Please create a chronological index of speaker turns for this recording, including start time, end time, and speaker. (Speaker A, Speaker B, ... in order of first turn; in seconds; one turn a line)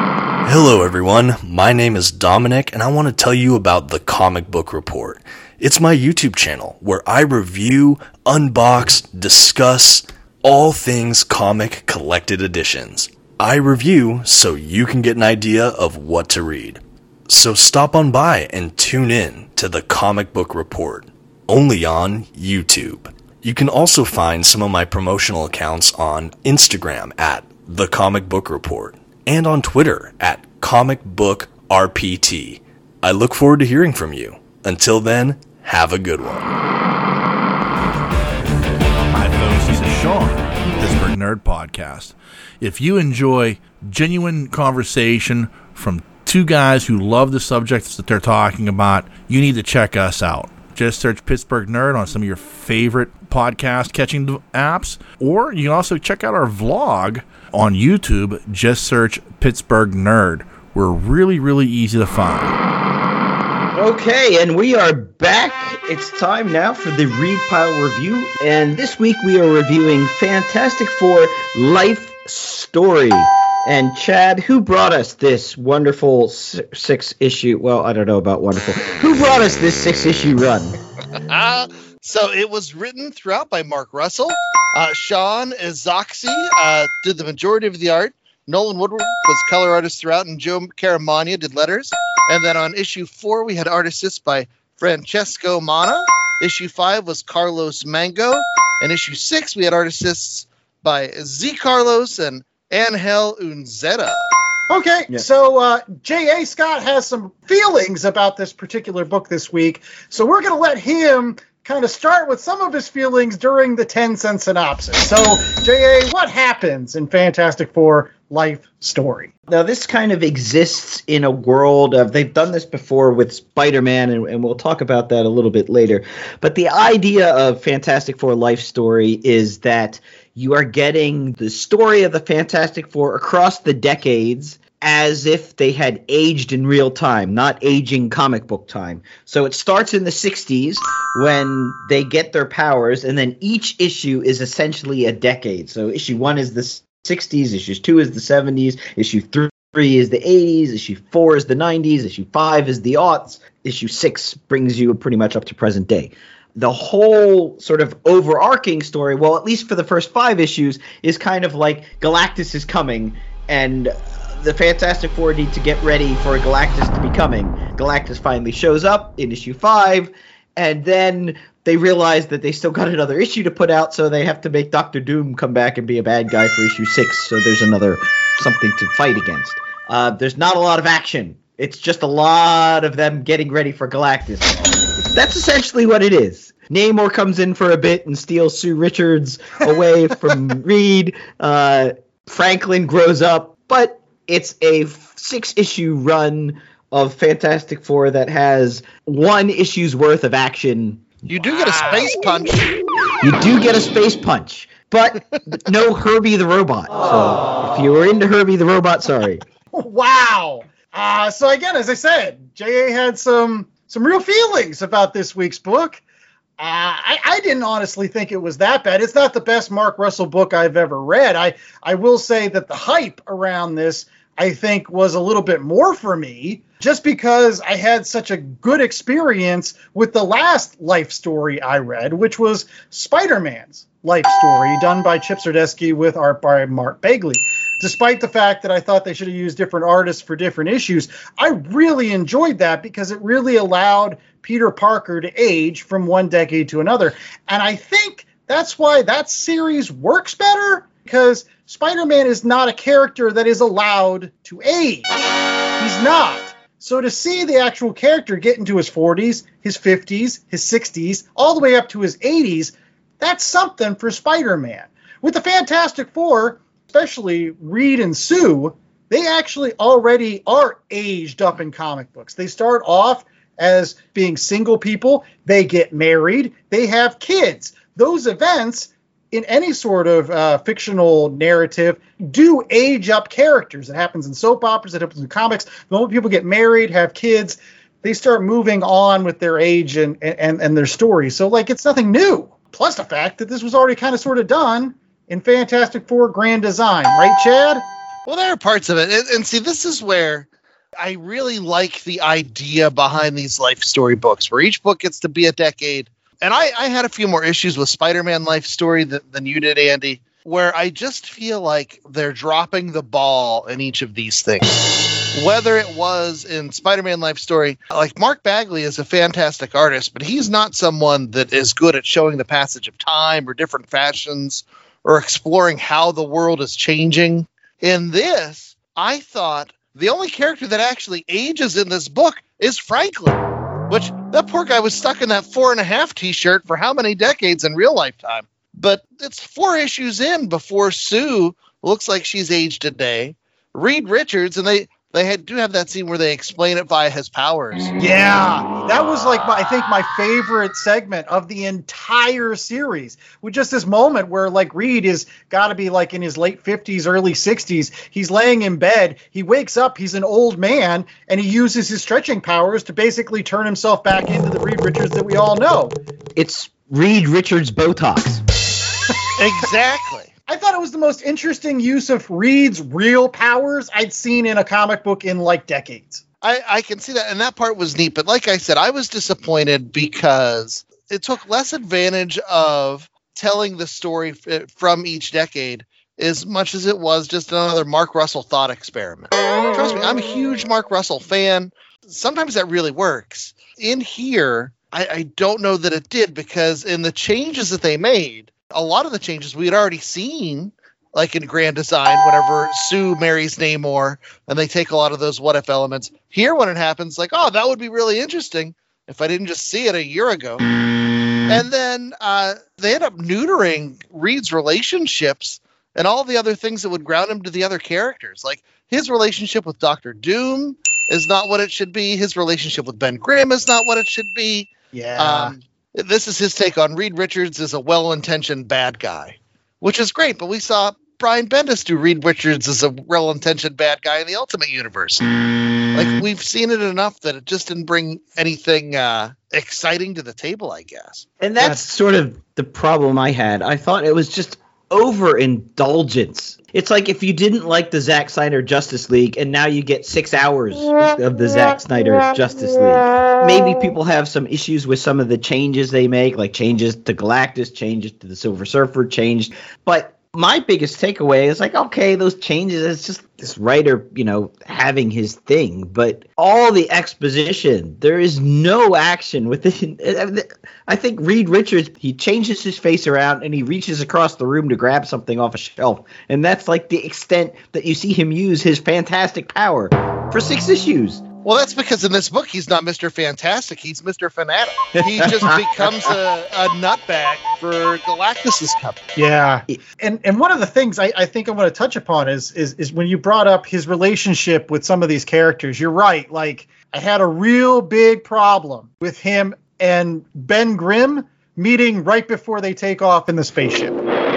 Speaker A: 0.4-36.5
Speaker B: 39.1-62.5
Speaker C: 63.7-80.7
Speaker D: 81.2-104.3
Speaker E: 104.7-119.3
Speaker C: 119.5-201.1
Speaker D: 201.2-202.8
Speaker C: 203.2-209.4
Speaker E: 209.7-216.0
Speaker E: 216.6-255.1
Speaker E: 255.8-297.9
Speaker D: 298.2-300.5
Speaker D: 301.0-347.9
Speaker E: 348.0-365.9
Speaker C: 366.4-368.4
Speaker D: 369.4-370.3
Speaker E: 370.5-376.2
Speaker D: 376.4-410.6
Speaker D: 411.5-435.2
Speaker E: 424.9-425.5
Speaker D: 435.9-441.2
Speaker C: 441.4-481.2
Speaker D: 481.4-489.0
Speaker C: 485.0-485.8
Speaker E: 489.1-504.0